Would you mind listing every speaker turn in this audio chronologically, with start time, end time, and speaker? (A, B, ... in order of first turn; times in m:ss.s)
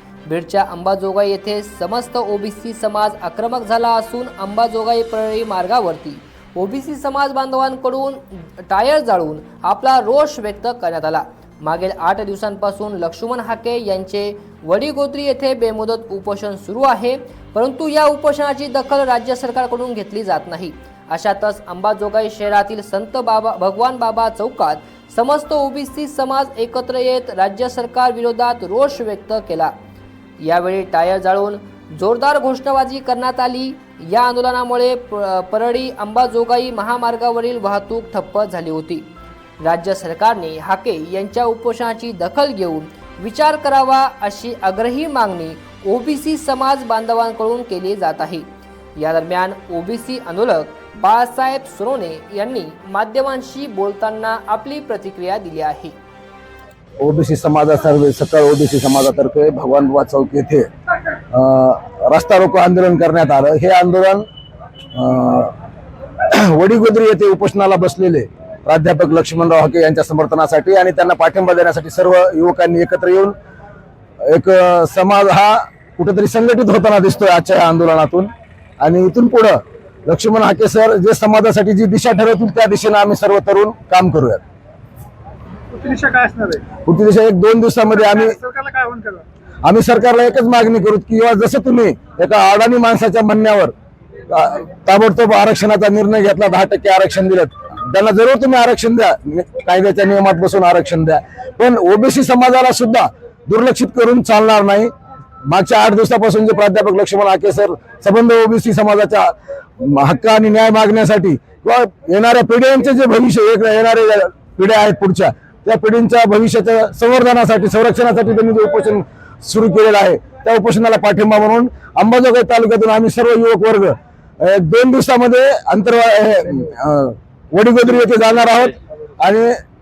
0:00.3-0:29.7 A
0:30.4-0:39.0 A
0:39.6-0:48.4 A
0:49.0-0:55.9 A
0:57.0-1:00.7 B
1:01.3-1:04.2 B
1:04.9-1:05.5 B
1:06.3-1:13.3 B
1:14.2-1:24.4 B
1:25.7-1:26.6 C
1:26.8-1:28.4 B
1:28.1-1:29.2 C
1:29.6-1:33.7 B
1:34.3-1:44.9 B
1:45.4-2:09.6 B